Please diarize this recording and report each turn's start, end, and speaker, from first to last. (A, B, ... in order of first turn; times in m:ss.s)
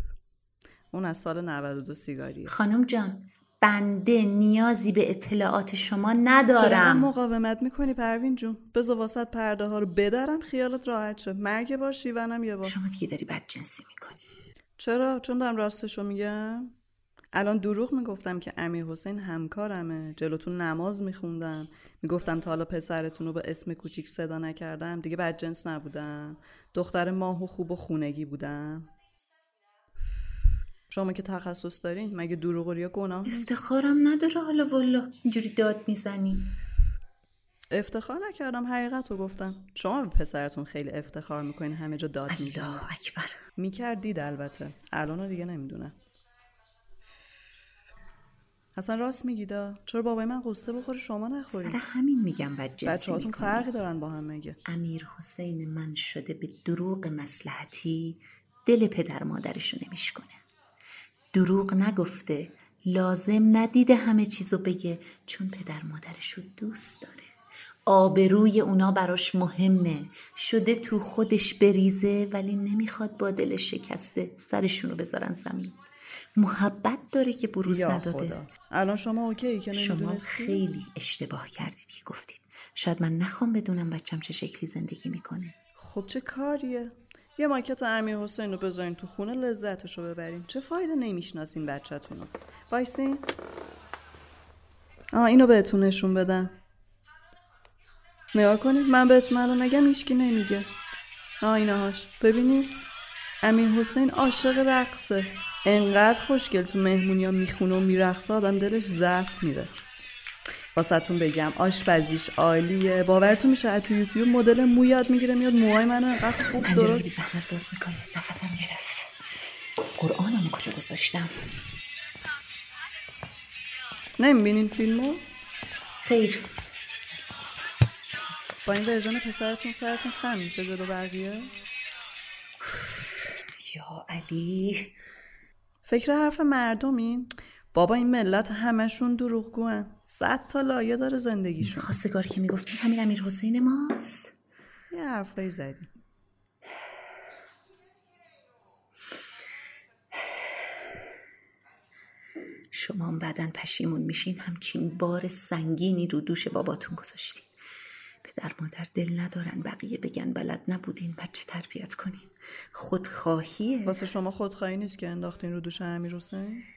0:00.9-0:02.5 A
0:02.4-0:07.1 B
0:06.5-0:12.8 A
0:12.6-0:14.2 B
0:14.8-0:16.7 A
0:17.3-0:28.9 A
0:30.9-0:33.5 A
0:33.2-0:36.6 B
0:37.7-0:42.9 A
0:42.3-0:43.4 B
0:43.6-0:46.0 A
0:48.8-0:51.8 A
0:51.5-0:53.7 B
0:52.8-0:54.6 A
0:54.6-1:00.4 B
1:01.3-1:07.3 B
1:07.8-1:18.4 B
1:17.6-1:20.6 A
1:19.7-1:25.6 B
1:25.8-1:33.3 A
1:35.1-1:36.6 A
1:38.3-1:40.7 A
1:41.4-1:42.9 A
1:43.4-1:49.8 A
1:50.7-1:57.2 A
1:56.4-1:59.2 B
1:59.8-2:01.6 B
2:04.2-2:05.3 A
2:06.0-2:07.6 B
2:08.6-2:11.5 A
2:12.6-2:15.0 B
2:15.8-2:21.9 A
2:21.6-2:24.3 B
2:24.9-2:25.9 A
2:32.7-2:37.5 B
2:38.2-2:44.0 B
2:43.8-2:46.7 A